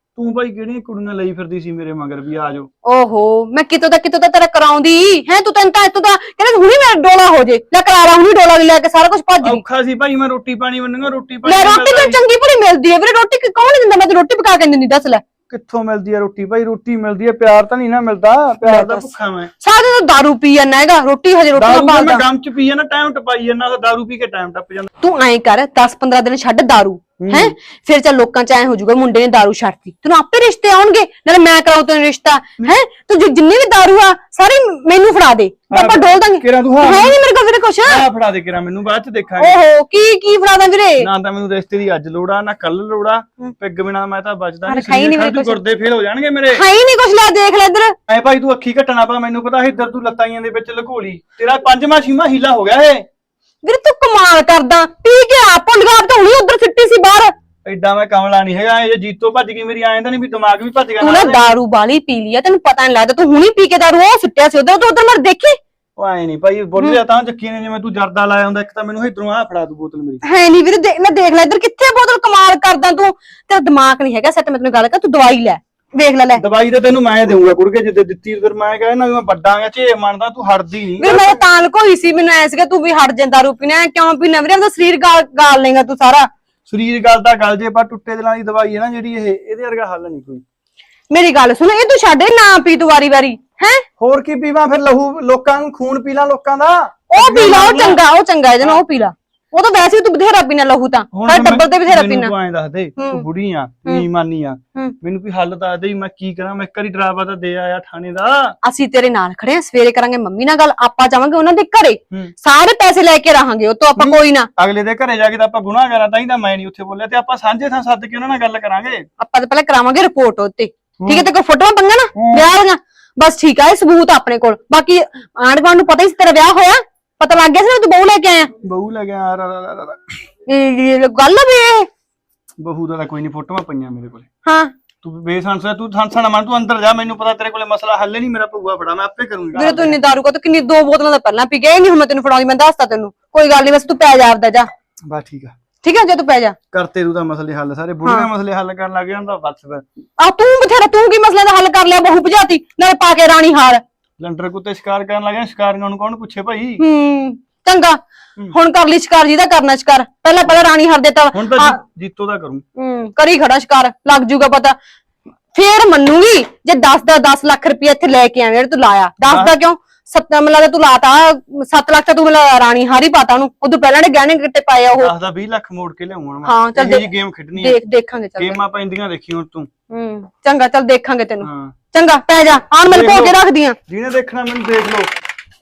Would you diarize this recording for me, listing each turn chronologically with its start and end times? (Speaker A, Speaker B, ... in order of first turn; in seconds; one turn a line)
Speaker A: 0.2-2.7
Speaker B: 2.9-9.6
Speaker A: 9.4-12.2
Speaker B: 11.4-15.2
Speaker A: 15.5-19.5
Speaker B: 18.6-22.3
Speaker A: 21.6-24.9
Speaker B: 25.0-38.0
Speaker A: 27.2-27.6
Speaker A: 35.7-37.1
Speaker A: 37.9-39.6
Speaker B: 39.4-41.1
Speaker A: 41.0-46.6
Speaker B: 44.7-45.6
Speaker B: 46.5-48.0
Speaker A: 48.1-53.0
Speaker B: 53.6-57.3
Speaker A: 57.6-61.5
Speaker B: 61.0-65.6
Speaker A: 66.0-70.2
Speaker B: 70.2-76.5
Speaker A: 76.4-81.3
Speaker B: 81.0-86.3
Speaker A: 86.7-90.4
Speaker B: 91.1-93.9
Speaker A: 94.0-98.0
Speaker B: 97.1-102.3
Speaker A: 101.1-108.5
Speaker B: 103.0-103.3
Speaker B: 108.6-114.5
Speaker A: 114.0-119.1
Speaker B: 119.2-128.5
Speaker A: 121.0-121.3
Speaker A: 122.1-122.5
Speaker A: 128.6-130.2
Speaker B: 130.5-131.9
Speaker A: 132.6-134.3
Speaker B: 134.4-134.7
Speaker A: 135.0-140.0
Speaker B: 139.6-144.7
Speaker A: 145.1-145.6
Speaker B: 145.8-146.6
Speaker A: 146.7-149.8
Speaker B: 148.0-148.3
Speaker B: 150.2-153.8
Speaker A: 154.2-156.8
Speaker B: 156.8-158.0
Speaker B: 158.5-161.8
Speaker A: 161.3-162.6
Speaker B: 162.8-164.8
Speaker B: 165.5-175.1
Speaker A: 169.3-169.5
Speaker A: 174.9-177.8
Speaker B: 176.4-178.6
Speaker A: 178.4-179.7
Speaker B: 179.9-183.8
Speaker A: 181.4-181.8
Speaker A: 182.9-183.3
Speaker A: 183.9-185.1